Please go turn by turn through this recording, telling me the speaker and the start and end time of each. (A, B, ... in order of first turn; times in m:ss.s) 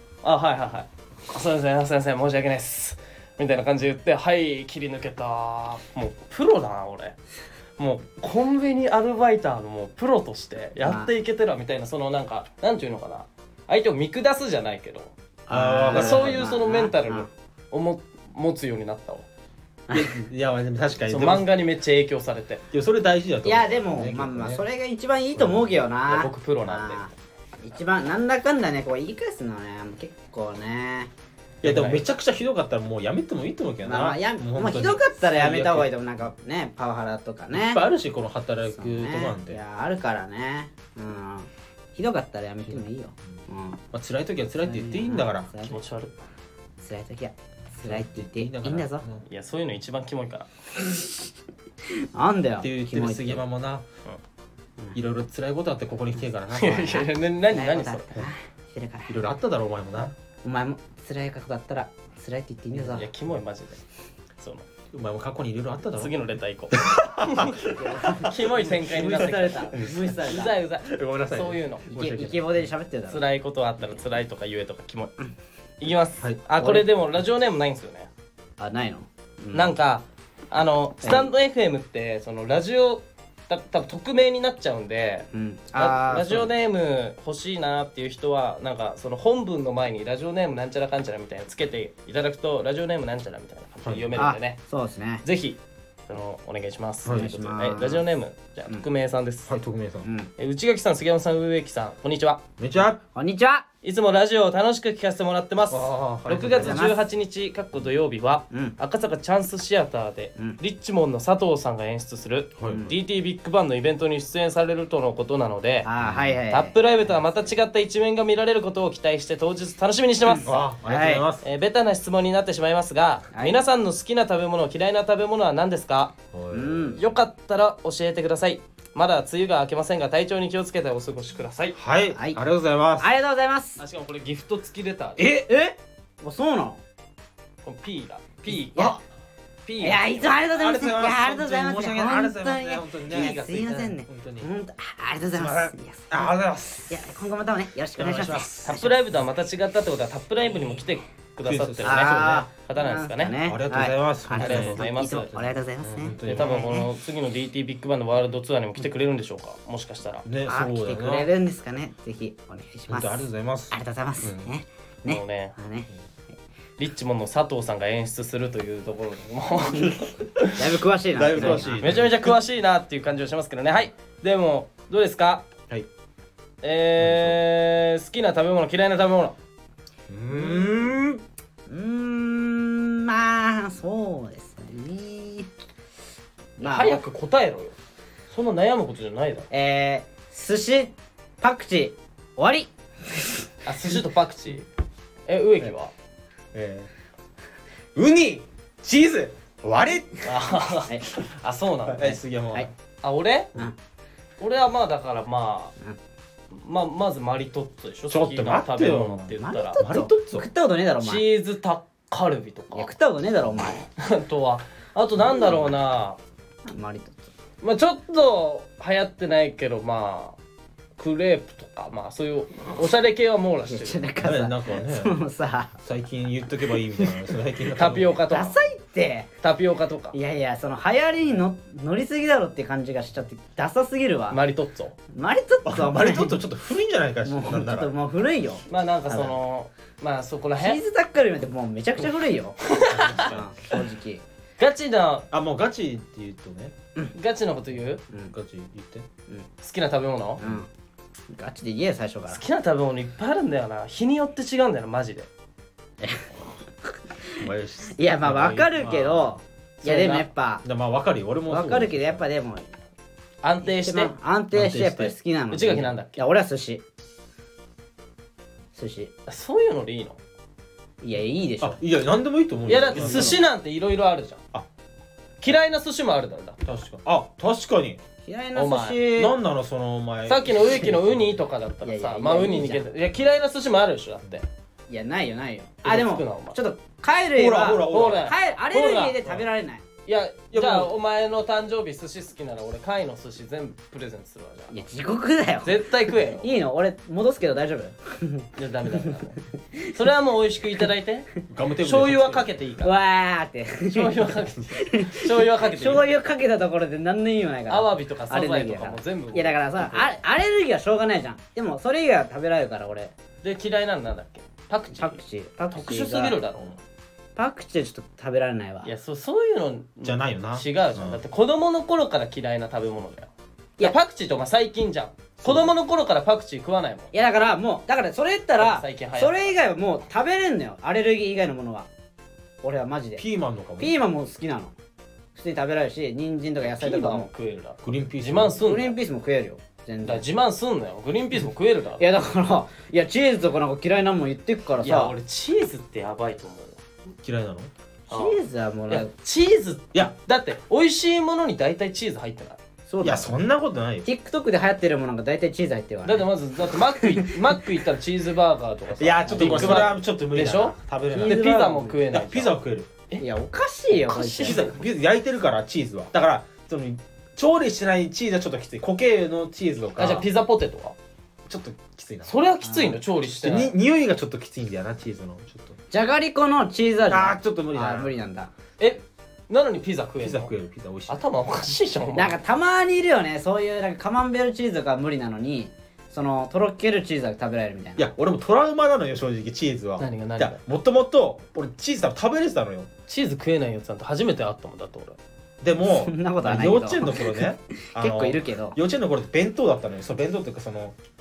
0:00.2-0:07.2 A
0:07.8-0:15.1 A
0:10.8-0:11.1 B
0:15.5-0:17.3 B
0:15.5-0:16.4 C
0:15.9-0:19.2 A
0:19.9-0:21.5 C
0:21.1-0:22.6 A
0:22.7-0:24.6 C
0:23.4-0:27.1 B
0:25.4-0:25.7 C
0:26.0-0:27.1 A
0:27.6-0:31.1 B
0:31.6-0:32.0 A
0:31.6-0:35.9 C
0:33.8-0:37.8 B
0:37.5-0:39.6 C
0:38.7-0:43.8 B
0:43.9-0:45.5 C
0:44.6-0:45.8 B
0:45.6-0:46.2 A
0:46.8-0:49.0 B
0:47.8-0:49.2 C
0:49.2-0:50.5 A
0:50.8-0:51.1 B
0:52.0-0:53.4 B
0:52.6-0:53.8 C
0:54.9-0:57.0 C
0:56.5-0:58.1 A
0:56.6-0:59.1 B
0:59.1-1:00.1 C
1:00.4-1:03.1 B
1:02.8-1:03.0 C
1:02.8-1:03.8 A
1:04.4-1:04.6 A
1:04.9-1:06.1 C
1:06.0-1:07.6 A
1:06.7-1:08.3 C
1:07.6-1:10.5 B
1:08.2-1:11.9 A
1:09.2-1:10.2 C
1:10.8-1:12.7 C
1:11.9-1:13.2 B
1:13.1-1:15.1 A
1:15.8-1:18.1 A
1:16.6-1:16.9 B
1:18.6-1:19.7 B
1:19.5-1:34.6 A
1:21.0-1:21.3 B
1:25.3-1:26.5 B
1:33.8-1:34.3 C
1:34.2-1:35.2 B
1:35.2-1:35.6 A
1:36.1-1:39.5 A
1:37.0-1:37.3 C
1:37.1-1:38.0 B
1:39.5-1:40.1 C
1:40.0-1:40.3 B
1:40.4-1:42.4 A
1:42.6-1:43.0 C
1:43.1-1:43.6 B
1:43.8-1:55.9 A
1:45.7-1:46.8 C
1:46.3-1:47.0 B
1:48.5-1:48.8 B
1:52.6-1:52.9 C
1:55.8-1:56.8 B
1:56.0-1:56.4 C
1:56.5-2:00.7 A
2:00.4-2:01.2 B
2:00.4-2:01.4 C
2:01.4-2:06.1 A
2:03.3-2:03.6 B
2:06.3-2:07.0 C
2:06.5-2:07.0 B
2:06.9-2:11.8 A
2:11.7-2:13.1 C
2:12.1-2:12.4 B
2:13.0-2:13.8 B
2:13.8-2:15.3 A
2:15.2-2:15.5 C
2:15.3-2:16.8 B
2:17.6-2:19.0 A
2:18.7-2:19.0 B
2:19.6-2:20.3 A
2:19.8-2:26.3 B
2:20.5-2:24.5 C
2:23.1-2:23.8 A
2:25.3-2:27.1 C
2:26.9-2:29.0 B
2:28.0-2:28.8 C
2:28.6-2:33.4 A
2:31.4-2:32.4 C
2:31.8-2:36.9 B
2:33.4-2:36.8 C
2:34.3-2:35.3 A
2:36.2-2:40.2 A
2:40.2-2:41.3 C
2:40.4-2:45.9 B
2:42.9-2:44.5 C
2:45.0-2:45.5 A
2:46.8-2:50.6 A
2:50.5-2:52.0 B
2:51.1-2:52.3 C
2:51.3-2:55.5 A
2:56.6-2:59.3 A
2:57.0-2:57.4 C
3:00.1-3:01.2 C
3:00.3-3:00.8 B
3:01.7-3:05.5 B
3:06.6-3:07.0 B
3:06.6-3:07.7 A
3:08.3-3:09.5 A
3:09.5-3:13.3 B
3:13.6-3:14.7 A
3:15.3-3:15.9 A
3:16.5-3:16.9 C
3:17.9-3:20.3 C
3:20.2-3:22.2 A
3:21.9-3:22.7 C
3:23.0-3:23.5 A
3:24.4-3:25.7 A
3:26.5-3:29.8 A
3:28.1-3:30.5 C
3:29.4-3:31.2 B
3:31.0-3:32.9 A
3:32.7-3:33.8 B
3:33.9-3:36.2 A
3:36.6-3:37.3 B
3:37.6-3:40.4 A
3:41.0-3:44.1 A
3:43.7-3:45.8 B
3:44.2-3:45.2 C
3:45.8-3:48.2 C
3:46.9-3:47.2 B
3:47.7-3:48.6 A
3:48.3-3:49.3 B
3:49.4-3:50.2 A
3:50.1-3:54.4 B
3:54.3-3:54.9 A
3:55.1-3:56.4 B
3:55.6-3:57.9 C
3:57.2-3:59.4 B
3:58.7-4:00.8 A
4:00.6-4:04.2 B
4:02.6-4:03.3 A
4:02.9-4:03.5 C
4:04.6-4:05.3 A
4:05.3-4:06.8 C
4:07.1-4:08.0 A
4:08.3-4:09.1 C
4:09.6-4:10.4 A
4:10.4-4:10.7 C
4:10.4-4:10.7 B
4:11.3-4:12.4 B
4:12.3-4:15.3 A
4:16.0-4:16.3 B
4:17.3-4:20.6 B
4:17.4-4:19.3 C
4:19.8-4:20.3 A
4:20.6-4:22.2 C
4:21.5-4:22.7 B
4:23.4-4:24.1 A
4:23.6-4:26.8 B
4:24.5-4:25.1 C
4:25.5-4:26.2 A
4:28.7-4:29.1 B
4:29.3-4:30.2 A
4:31.0-4:31.8 B
4:31.6-4:33.4 C
4:32.7-4:34.4 A
4:32.8-4:33.4 B
4:35.4-4:36.6 A
4:36.6-4:38.0 C
4:38.2-4:39.4 B
4:38.5-4:39.0 A
4:39.1-4:41.4 C
4:40.2-4:44.4 A
4:41.8-4:42.9 B
4:44.9-4:49.8 B
4:45.8-4:46.6 A
4:47.3-4:48.3 C
4:47.9-4:49.3 A
4:50.0-4:54.8 A
4:50.5-4:50.9 C
4:54.7-4:58.5 B
4:55.6-4:56.5 A
4:58.6-4:59.4 A
4:59.9-5:01.3 A
5:01.5-5:02.5 C
5:01.8-5:03.0 A
5:02.8-5:13.1 B
5:03.9-5:06.2 A
5:07.7-5:10.1 A
5:13.4-5:15.2 A
5:14.9-5:16.4 B
5:15.7-5:16.8 A
5:17.4-5:18.9 B
5:18.8-5:27.1 A
5:20.0-5:21.2 C
5:25.4-5:25.7 C
5:27.1-5:31.9 B
5:28.6-5:29.6 A
5:32.6-5:33.2 B
5:33.2-5:33.9 C
5:33.8-5:34.7 B
5:35.3-5:37.3 B
5:36.6-5:39.0 A
5:37.8-5:38.6 C
5:38.6-5:40.2 B
5:40.0-5:42.0 A
5:42.0-5:45.1 B
5:44.8-5:46.8 A
5:47.2-5:47.7 C
5:48.1-5:49.1 B
5:48.1-5:52.6 A
5:52.9-5:53.3 B
5:53.0-5:54.1 C
5:54.0-5:57.6 B
5:56.0-6:02.6 A
5:59.0-6:01.5 C
5:59.2-6:00.0 B
6:01.1-6:02.0 B
6:02.1-6:02.9 C
6:03.2-6:04.8 B
6:03.9-6:04.7 A
6:04.4-6:10.3 C
6:10.0-6:11.0 A
6:11.4-6:12.3 C
6:12.2-6:13.8 A
6:12.6-6:13.0 B
6:13.4-6:15.8 C
6:15.9-6:18.5 B
6:17.1-6:18.1 C
6:18.8-6:20.5 A
6:20.2-6:21.2 C
6:21.1-6:22.4 A
6:22.1-6:28.1 B
6:28.0-6:32.9 C
6:30.0-6:30.6 A
6:33.1-6:35.2 A
6:35.6-6:41.0 C
6:35.8-6:38.8 B